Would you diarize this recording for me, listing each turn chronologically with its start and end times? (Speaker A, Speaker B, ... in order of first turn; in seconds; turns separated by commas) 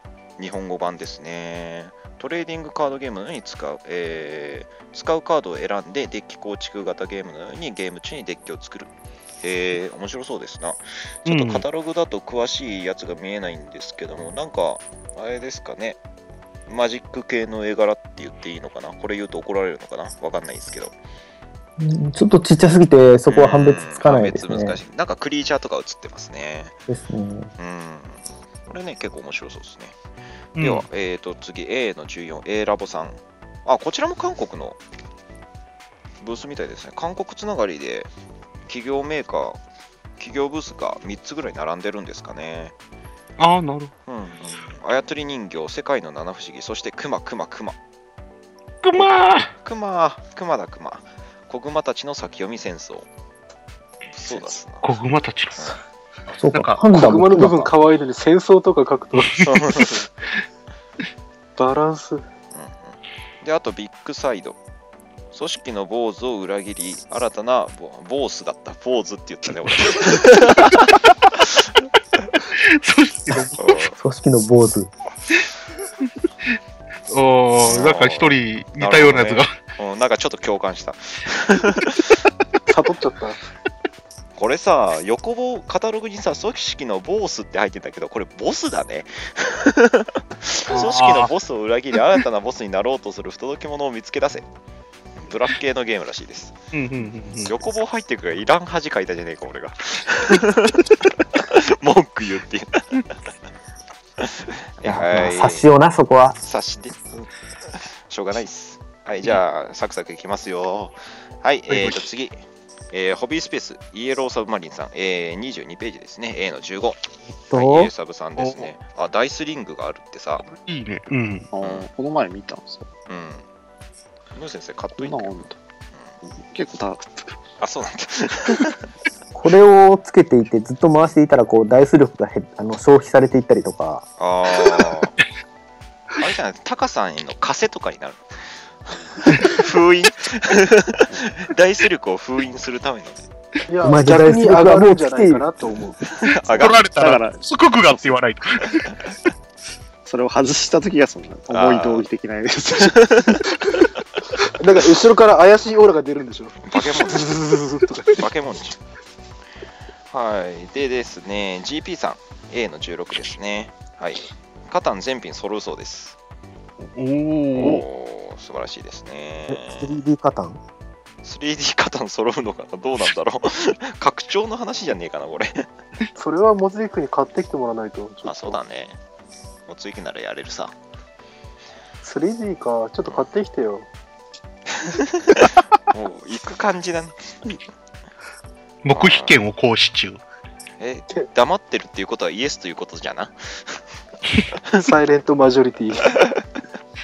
Speaker A: 0.4-8.9, Speaker A: 9.4-16.0, Speaker B: 11.2-11.6, Speaker A: 16.7-20.9, Speaker C: 21.8-24.8, Speaker A: 23.3-26.7, Speaker C: 26.9-27.5, Speaker A: 27.6-29.9, Speaker B: 30.6-30.9, Speaker A: 30.6-34.8, Speaker A: 36.2-38.1, Speaker A: 38.7-39.6, Speaker A: 40.2-42.7, Speaker B: 43.4-43.9, Speaker A: 44.1-47.8, Speaker B: 48.8-49.5, Speaker A: 49.0-53.1, Speaker A: 54.1-54.9, Speaker B: 54.8-55.8, Speaker C: 56.3-57.7, Speaker B: 56.5-56.8, Speaker D: 56.9-59.5, Speaker A: 59.4-60.0, Speaker D: 61.6-62.2, Speaker A: 62.5-64.6, Speaker A: 65.3-70.9, Speaker B: 72.5-73.7, Speaker A: 73.5-74.0, Speaker C: 74.0-74.9, Speaker B: 77.1-79.5, Speaker A: 77.6-82.2, Speaker D: 82.7-83.4, Speaker A: 84.3-94.5, Speaker B: 90.7-91.3, Speaker A: 95.2-96.6, Speaker B: 96.7-97.5, Speaker A: 97.4-103.0, Speaker A: 104.2-105.7, Speaker C: 104.8-106.4, Speaker A: 106.4-120.5, Speaker B: 111.7-112.0, Speaker C: 117.5-117.9, Speaker B: 118.4-118.7, Speaker B: 120.5-121.5, Speaker E: 121.5-122.9, Speaker A: 121.6-121.9, Speaker A: 123.1-123.4, Speaker A: 124.3-125.5, Speaker E: 125.0-125.5, Speaker E: 126.2-127.3, Speaker A: 127.6-128.8, Speaker C: 129.3-134.0, Speaker A: 134.2-135.2, Speaker A: 136.2-143.3, Speaker B: 139.3-139.6, Speaker D: 143.7-146.0, Speaker C: 143.8-145.4, Speaker A: 146.1-146.9, Speaker B: 146.5-148.9, Speaker E: 146.6-148.1, Speaker E: 150.0-153.5, Speaker A: 151.5-152.1, Speaker A: 152.9-153.4, Speaker D: 154.5-158.2, Speaker A: 156.7-157.3, Speaker A: 158.1-158.8, Speaker A: 160.1-166.2, Speaker B: 166.9-167.8, Speaker A: 167.6-170.0, Speaker C: 169.5-170.6, Speaker A: 171.2-175.7, Speaker D: 176.1-178.6, Speaker A: 178.2-179.0, Speaker A: 179.7-180.7, Speaker D: 182.0-183.9, Speaker A: 184.8-187.5, Speaker B: 188.8-190.2, Speaker A: 188.9-189.4, Speaker A: 190.8-193.8, Speaker D: 194.7-196.2